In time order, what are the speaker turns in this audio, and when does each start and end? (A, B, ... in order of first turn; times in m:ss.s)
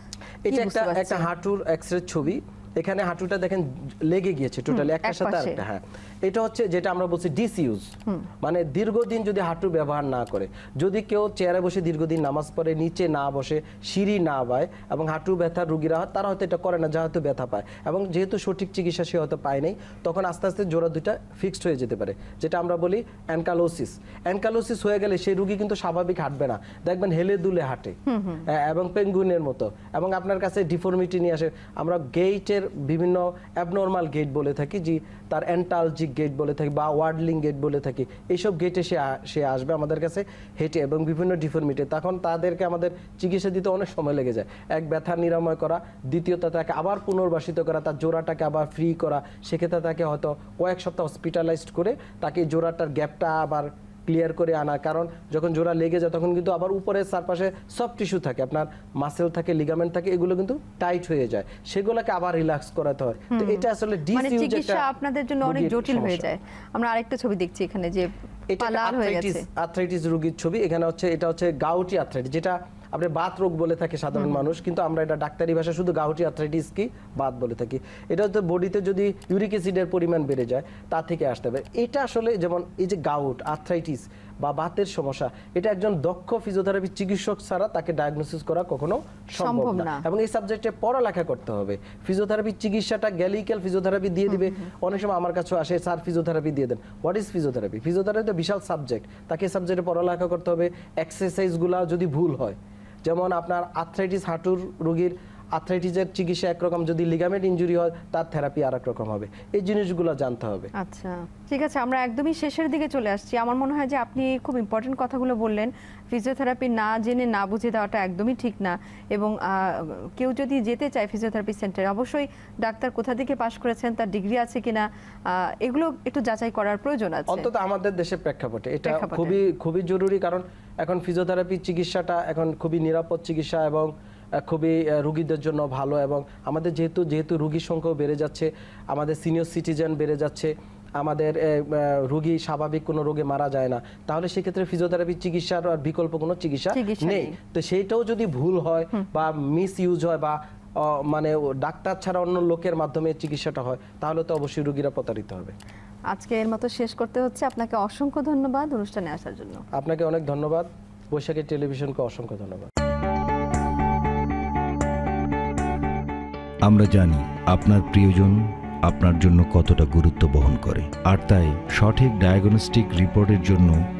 0:00.4-0:07.9 A
0:00.5-0:01.3 B
0:04.7-0:05.6 B
0:08.4-1:06.3 A
0:28.1-0:28.4 B
1:03.3-1:09.4 B
1:08.5-1:50.7 A
1:29.4-1:30.0 B
1:50.8-2:07.5 B
2:07.3-2:35.5 A
2:08.8-2:09.3 B
2:26.7-2:27.3 B
2:36.1-2:39.6 B
2:39.7-2:42.7 A
2:46.6-2:53.8 C